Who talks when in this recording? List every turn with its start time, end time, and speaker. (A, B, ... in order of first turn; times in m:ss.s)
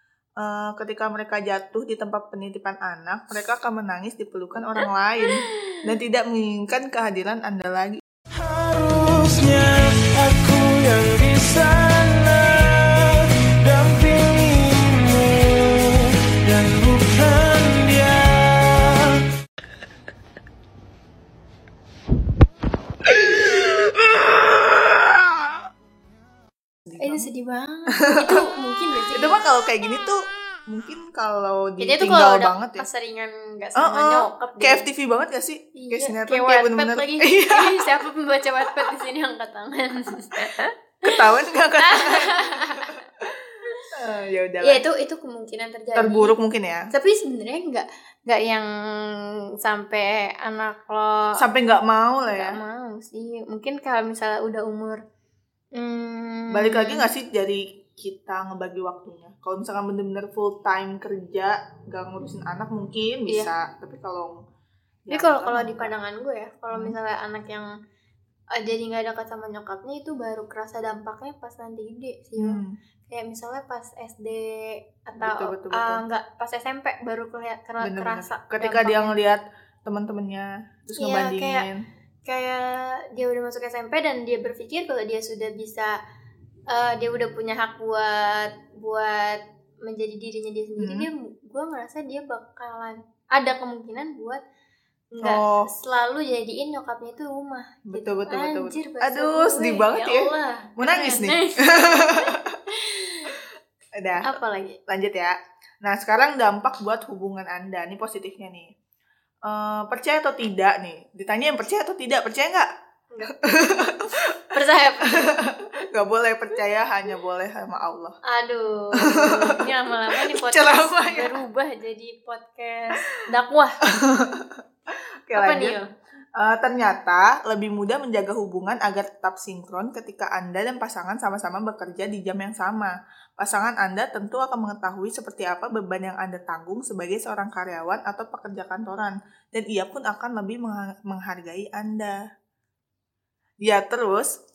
0:00.4-0:08.0 A
0:08.3-0:19.2 B
0:26.9-0:27.3 A
0:27.0-0:29.4 C
0:28.0-0:28.5 A
0:29.1-0:32.9 A
0:31.8-0:34.9 C
0:33.8-0:37.9 A
0:35.8-0:41.2 C
0:41.0-0:44.8 A
0:41.8-0:43.0 C
0:44.6-0:46.4 C
0:46.0-0:46.9 A
0:46.9-0:51.4 C
0:51.4-0:52.6 A
0:52.3-0:55.0 C
0:55.8-0:57.1 C
0:56.5-1:04.4 A
1:05.1-1:05.9 A
1:05.1-1:07.7 C
1:08.5-1:19.1 C
1:12.4-1:12.8 A
1:15.2-1:16.0 A
1:17.8-1:21.8 A
1:21.0-1:21.7 C
1:22.2-1:26.0 C
1:26.7-1:34.4 C
1:30.8-1:31.1 A
1:35.1-1:43.4 C
1:35.2-1:35.7 A
1:37.9-1:42.6 A
1:44.0-1:48.7 A
1:44.2-1:44.8 C
1:49.4-1:52.7 A
1:53.1-1:53.5 C
1:53.3-1:58.2 A
1:54.5-1:55.4 C
1:58.3-2:03.8 C
1:59.0-2:01.4 A
2:03.9-2:04.6 A
2:05.3-2:05.8 A
2:05.4-2:05.9 C
2:06.4-2:22.2 A
2:23.6-2:24.4 A